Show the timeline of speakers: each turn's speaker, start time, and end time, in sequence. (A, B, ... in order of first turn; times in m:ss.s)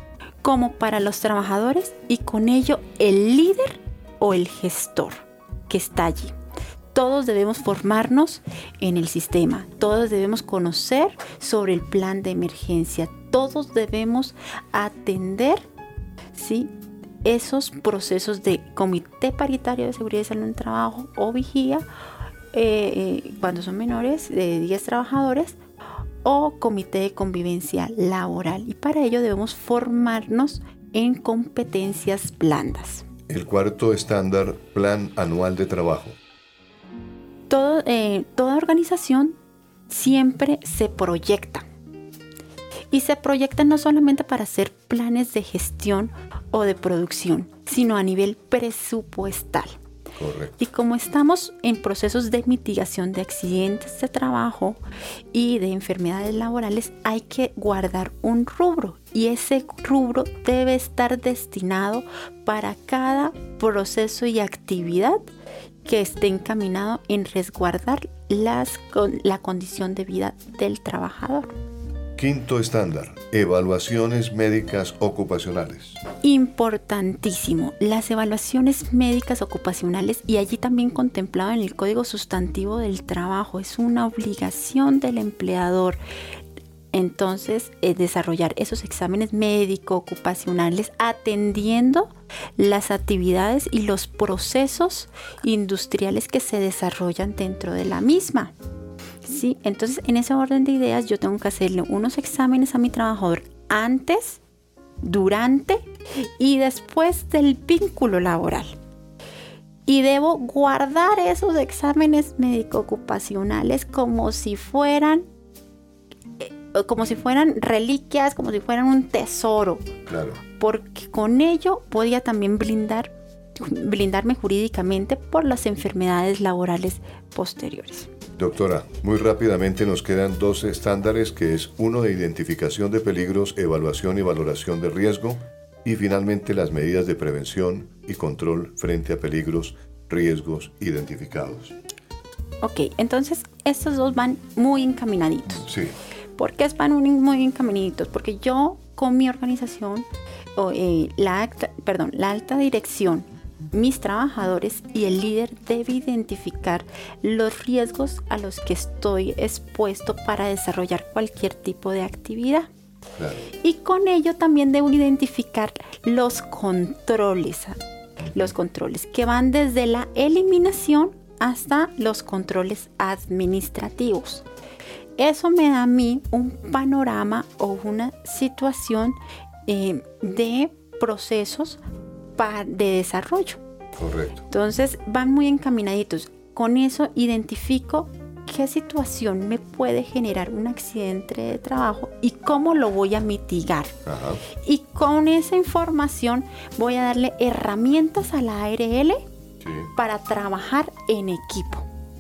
0:00.4-0:06.4 A
0:06.9-0:15.6 A
0:16.4-0:16.7 A
0:17.2-0:21.9 A
0:22.5-0:25.6 A
0:26.2-0:33.1 A
0:33.3-0:36.2 B
0:37.5-0:39.4 A
0:39.9-0:41.6 A
0:42.9-0:49.8 A
0:50.2-0:50.6 B
0:50.6-0:54.8 A
0:55.3-1:05.2 A
1:05.8-1:11.5 A
1:12.2-1:16.0 B
1:16.2-1:26.0 A
1:26.9-1:38.5 A
1:39.2-1:44.4 A
1:45.0-1:48.8 A
1:49.9-1:55.2 A
1:56.4-1:59.9 A
2:00.1-2:00.4 B
2:00.6-2:08.1 A
2:08.4-2:21.8 B
2:22.6-2:25.6 A
2:25.6-2:26.0 B
2:26.4-2:42.7 A
2:43.2-2:43.5 B
2:43.6-2:47.8 A
2:48.2-2:48.5 B
2:48.3-2:54.4 A
2:55.2-3:01.8 A
3:02.4-3:03.6 A
3:04.0-3:04.4 B
3:04.5-3:14.0 A
3:14.0-3:14.4 B
3:14.6-3:19.3 A
3:19.6-3:19.9 B
3:20.0-3:21.9 A